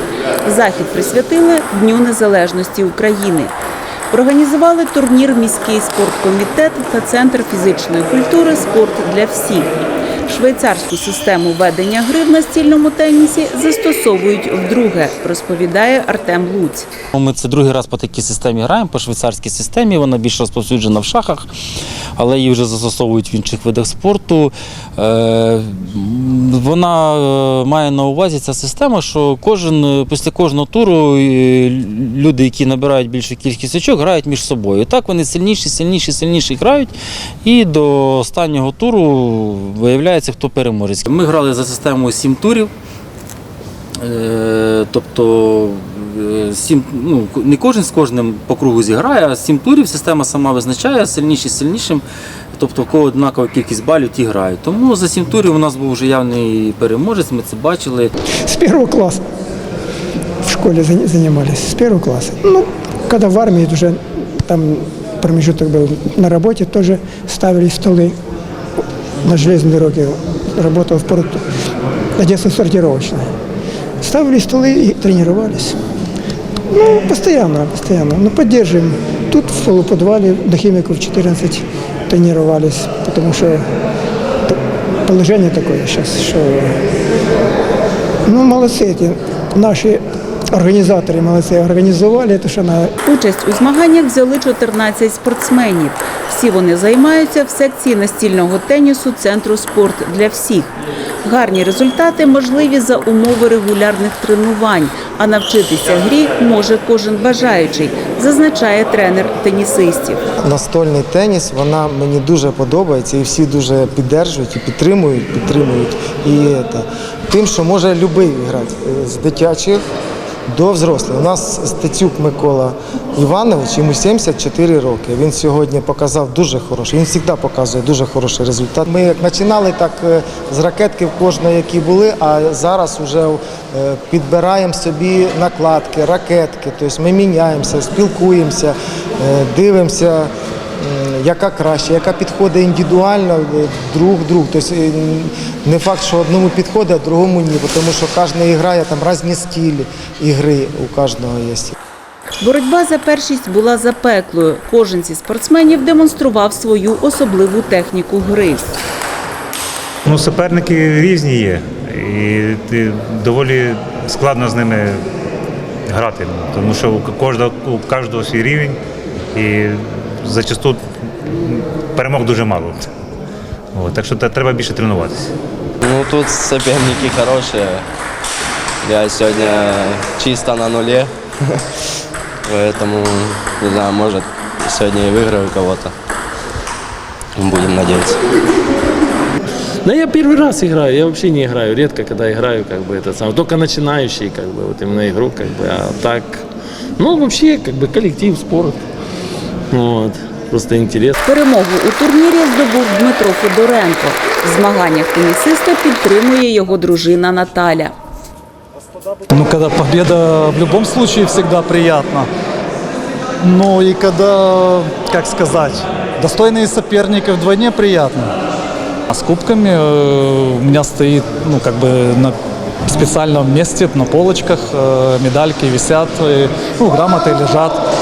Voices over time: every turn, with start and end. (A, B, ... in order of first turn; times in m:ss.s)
0:00.4-0:03.5 A
0:04.1-0:09.7 A
0:10.2-0:16.9 A
0:17.1-0:21.5 B
0:22.2-0:42.7 B
0:44.0-0:58.1 B
0:58.5-0:59.2 C
1:00.4-1:08.2 C
1:09.2-1:11.4 C
1:12.2-1:13.3 C
1:14.0-1:15.8 C
1:16.7-1:23.6 C
1:24.5-1:26.7 C
1:28.2-1:32.9 C
1:33.0-1:40.7 A
1:41.2-1:50.2 A
1:50.4-1:59.8 D
2:00.5-2:31.7 D
2:32.4-2:38.7 A
2:40.0-2:45.0 E
2:45.9-2:48.8 E
2:49.3-2:50.8 E
2:51.3-2:52.8 E
2:53.8-2:55.3 E
2:55.8-2:57.8 F
2:58.8-3:01.6 F
3:02.4-3:05.9 F
3:07.4-3:08.2 F
3:09.8-3:16.4 G
3:17.0-3:18.8 G
3:19.7-3:21.2 G
3:21.2-3:27.9 A
3:29.3-3:32.3 H
3:33.4-3:38.3 H
3:39.1-3:47.8 H